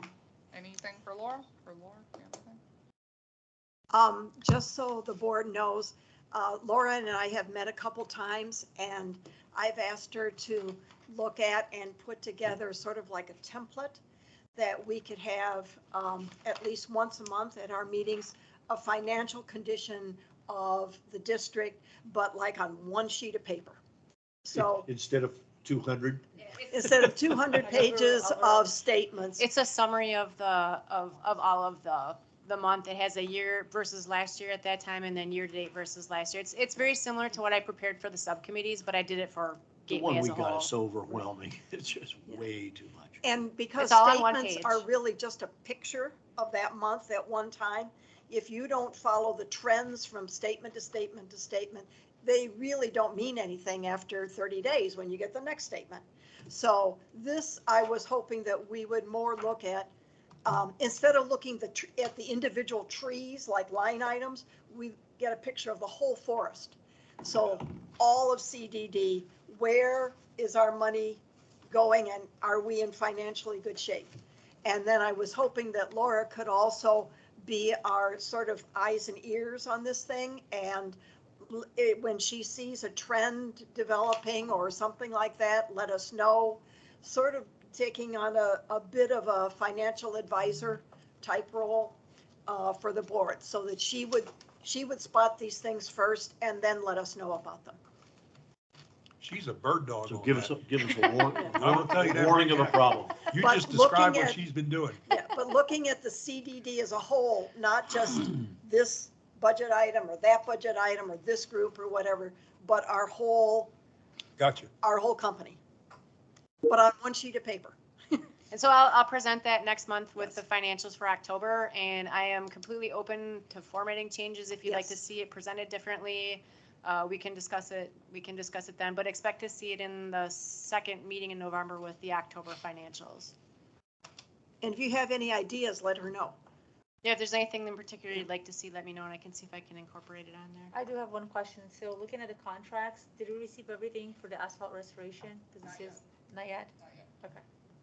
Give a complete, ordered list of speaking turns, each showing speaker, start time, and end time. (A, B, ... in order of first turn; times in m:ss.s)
0:00.5-0:02.6 A
0:03.9-0:14.0 B
0:14.5-0:23.8 B
0:24.4-0:24.8 B
0:24.5-0:26.2 C
0:26.7-0:29.5 B
0:27.6-0:28.7 D
0:29.4-0:40.6 E
0:39.9-0:43.2 C
0:43.2-0:59.9 B
0:43.8-0:44.8 E
1:00.4-1:14.1 B
1:14.6-1:37.8 B
1:39.2-1:40.6 F
1:40.0-1:43.3 C
1:41.5-1:45.0 F
1:43.4-1:44.4 B
1:45.1-1:53.7 B
1:54.4-1:54.7 F
1:54.8-1:55.6 B
1:56.6-1:58.2 B
1:58.5-2:13.3 E
2:04.6-2:05.0 B
2:14.6-2:16.4 B
2:17.0-2:20.7 E
2:20.7-2:27.4 D
2:25.6-2:26.0 A
2:26.8-2:27.1 A